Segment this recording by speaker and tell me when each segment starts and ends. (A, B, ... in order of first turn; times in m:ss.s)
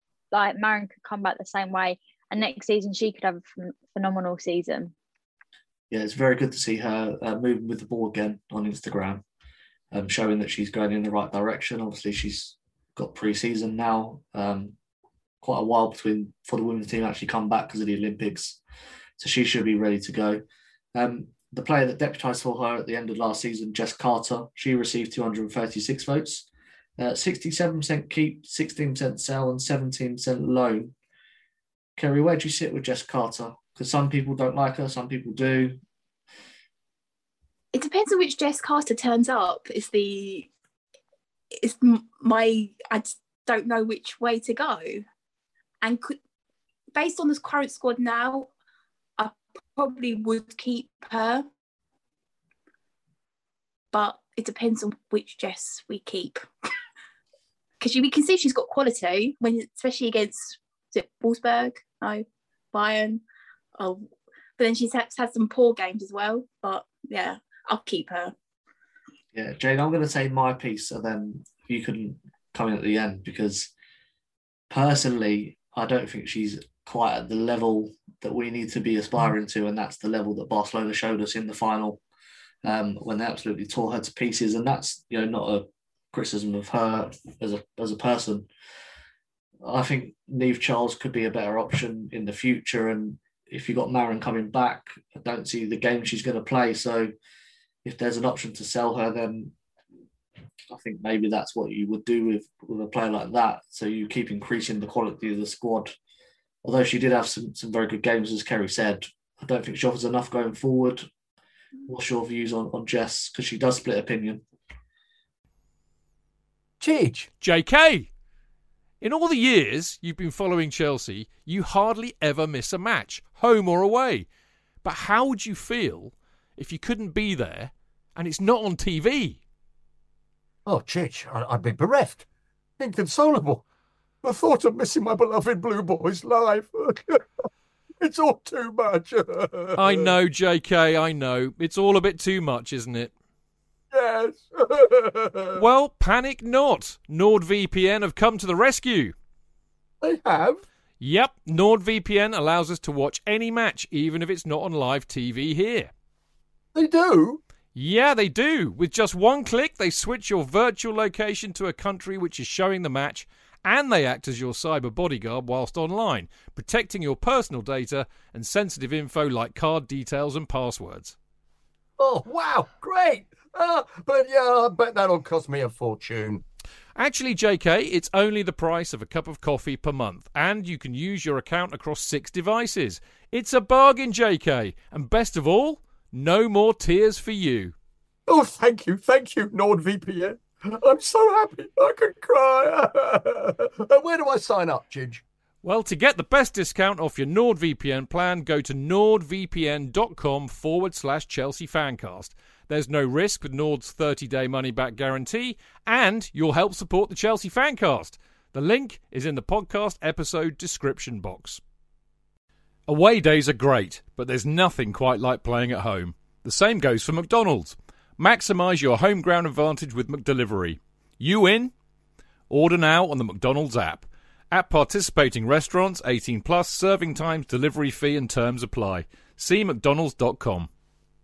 0:00.3-0:04.9 A
0:05.9-0:09.2 B
0:09.9-0:14.8 B
0:15.4-0:18.6 B
0:19.2-0:20.4 B
0:20.9-0:26.5 B
0:27.0-0:30.9 B
0:32.0-0:35.8 B
0:37.7-0:40.5 C
0:41.5-0:45.0 C
0:45.8-0:46.2 C
0:46.9-0:48.5 C
0:49.2-0:51.4 C
0:53.9-0:56.4 C
0:57.8-1:03.2 C
1:03.8-1:04.1 C
1:04.6-1:08.3 C
1:09.3-1:13.7 B
1:14.7-1:22.0 B
1:22.6-1:28.5 B
1:29.6-1:37.1 B
1:37.8-1:39.5 B
1:40.7-1:46.0 B
1:46.6-1:51.1 B
1:51.9-1:54.4 B
1:56.8-1:57.3 D
1:57.4-1:58.1 E
1:59.0-2:04.3 E
2:04.8-2:09.4 E
2:10.6-2:12.3 D
2:12.8-2:13.6 D
2:14.2-2:17.3 D
2:18.0-2:20.1 D
2:19.8-2:23.1 E
2:23.9-2:25.6 D
2:25.5-2:29.1 E
2:30.0-2:30.6 D
2:31.0-2:35.9 E
2:36.7-2:37.4 D
2:37.7-2:51.2 E
2:52.0-2:56.4 D
2:57.0-3:07.7 E
3:08.3-3:15.2 D
3:15.6-3:31.6 E
3:32.9-3:41.7 E
3:42.5-3:50.7 E